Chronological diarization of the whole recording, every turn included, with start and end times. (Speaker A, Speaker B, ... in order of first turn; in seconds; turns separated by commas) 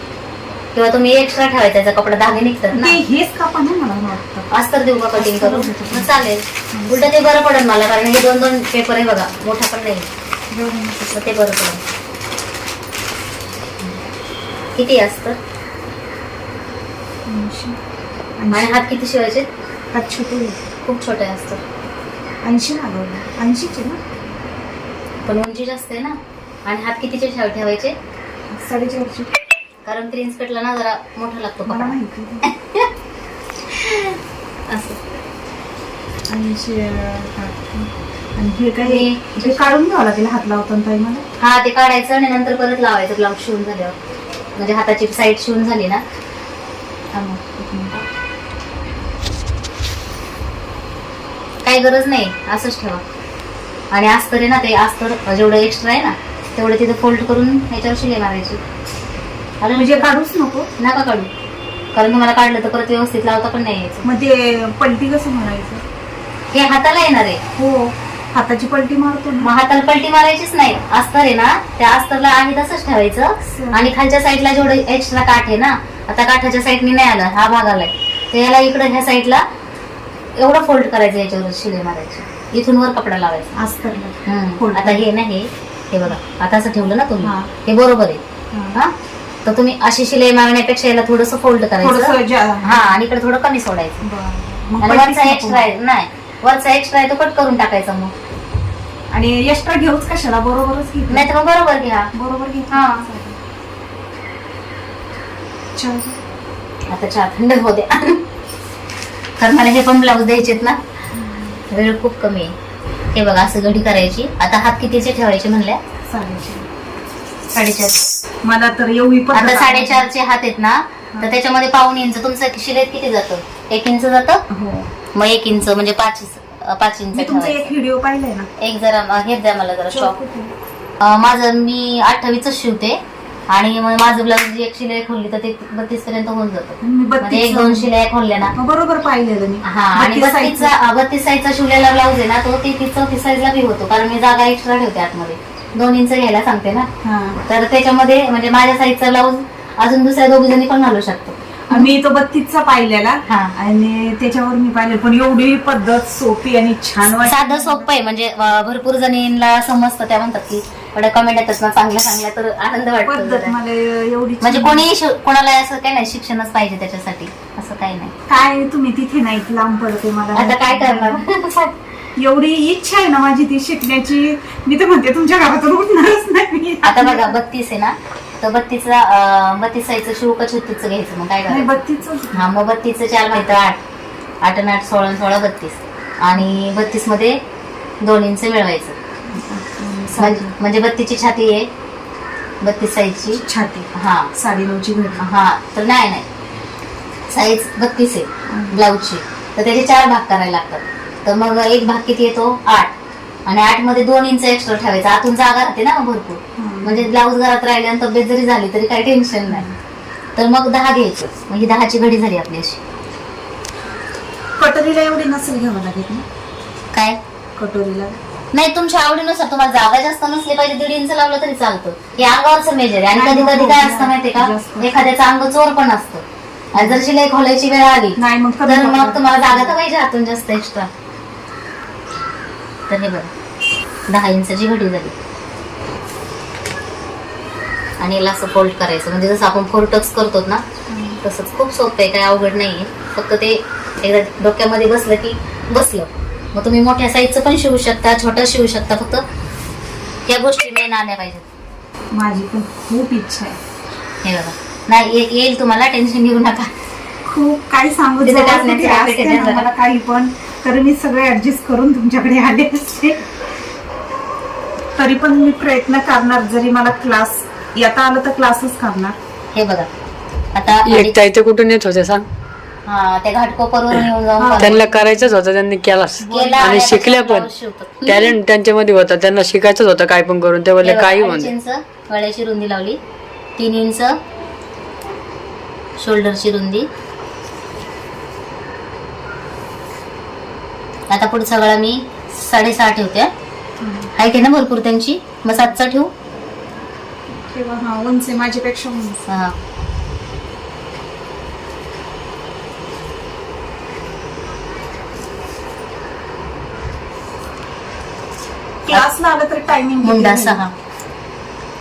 Speaker A: 0.8-3.0, Speaker B: 2.7-4.5, Speaker A: 4.5-10.1, Speaker B: 5.1-7.2, Speaker B: 10.5-11.3, Speaker A: 11.1-11.8, Speaker A: 14.8-15.4, Speaker B: 17.3-17.8, Speaker B: 18.4-18.8, Speaker A: 18.5-19.5, Speaker B: 19.9-20.6, Speaker A: 20.8-21.6, Speaker B: 22.4-24.0, Speaker A: 25.2-27.9, Speaker B: 28.5-29.3, Speaker A: 29.9-32.9, Speaker B: 31.7-32.5, Speaker A: 33.7-34.2, Speaker A: 34.7-35.0, Speaker B: 36.3-41.2, Speaker A: 38.8-39.7, Speaker A: 41.4-44.0, Speaker A: 44.6-46.0, Speaker B: 47.2-47.9, Speaker A: 47.3-47.6, Speaker A: 51.6-53.0, Speaker A: 53.9-58.6, Speaker A: 59.6-60.1, Speaker B: 59.8-60.7, Speaker A: 60.8-61.3, Speaker A: 61.9-64.0, Speaker B: 64.0-65.8, Speaker A: 66.5-67.4, Speaker B: 67.6-69.5, Speaker A: 69.4-79.4, Speaker B: 73.5-73.8, Speaker A: 80.4-83.5, Speaker B: 83.5-85.1, Speaker A: 84.3-88.2, Speaker B: 87.2-87.5, Speaker B: 88.5-88.8, Speaker A: 89.5-92.1, Speaker B: 91.8-93.0, Speaker A: 92.6-94.0, Speaker B: 94.0-95.7, Speaker A: 94.8-98.1, Speaker B: 99.1-101.3, Speaker A: 101.1-102.1, Speaker B: 102.1-103.4, Speaker A: 102.7-103.0, Speaker B: 105.8-106.2, Speaker A: 106.9-108.2, Speaker A: 109.4-110.8, Speaker B: 111.1-111.6, Speaker A: 111.7-112.5, Speaker A: 113.1-115.8, Speaker B: 116.1-116.7, Speaker A: 117.5-118.0, Speaker B: 118.4-120.1, Speaker A: 119.3-124.4, Speaker B: 124.5-124.9, Speaker A: 125.2-127.7, Speaker B: 127.1-128.5, Speaker A: 128.6-130.2, Speaker B: 129.9-130.5, Speaker A: 131.0-133.0, Speaker A: 133.5-138.5, Speaker B: 136.8-137.9, Speaker B: 138.6-140.7, Speaker A: 139.7-146.9, Speaker B: 147.0-147.4, Speaker A: 147.5-151.9, Speaker B: 151.7-157.9, Speaker A: 153.3-153.5, Speaker A: 157.2-163.6, Speaker B: 163.1-164.9, Speaker A: 164.4-168.1, Speaker B: 168.3-171.2, Speaker A: 170.3-171.7, Speaker B: 172.2-177.3, Speaker A: 176.8-181.8, Speaker B: 181.5-182.5, Speaker A: 182.3-183.8, Speaker A: 184.4-187.4, Speaker A: 188.0-189.0, Speaker B: 189.3-190.6, Speaker A: 190.2-191.7, Speaker A: 192.6-193.4, Speaker B: 193.3-195.2, Speaker A: 193.9-194.3, Speaker A: 195.2-196.3, Speaker A: 197.3-202.9, Speaker B: 198.5-198.8, Speaker A: 203.5-209.7, Speaker B: 206.6-207.1, Speaker B: 209.5-209.8, Speaker A: 210.4-212.8, Speaker B: 214.6-216.2, Speaker A: 216.9-217.2, Speaker B: 217.6-218.2, Speaker A: 218.5-230.9, Speaker B: 223.1-225.1, Speaker B: 226.8-227.0, Speaker B: 228.2-229.8, Speaker A: 232.9-233.3, Speaker A: 234.1-235.1, Speaker A: 238.0-240.6, Speaker B: 240.9-241.2, Speaker A: 241.2-249.2, Speaker A: 250.3-251.5, Speaker B: 252.1-253.6, Speaker A: 254.2-256.7, Speaker B: 257.3-263.2, Speaker A: 258.2-259.7, Speaker B: 265.0-269.2, Speaker A: 269.5-269.9, Speaker A: 270.6-271.2, Speaker C: 270.9-272.2, Speaker A: 272.9-274.9, Speaker B: 274.4-275.3, Speaker C: 274.6-277.5, Speaker B: 276.2-277.0, Speaker A: 276.3-278.4, Speaker C: 278.1-281.5, Speaker A: 280.8-283.0, Speaker A: 283.6-284.2, Speaker A: 286.0-286.9, Speaker A: 291.1-293.3, Speaker B: 293.8-294.1, Speaker A: 294.1-296.1, Speaker B: 297.4-299.2, Speaker A: 299.3-299.6, Speaker B: 308.9-310.6, Speaker A: 310.0-310.7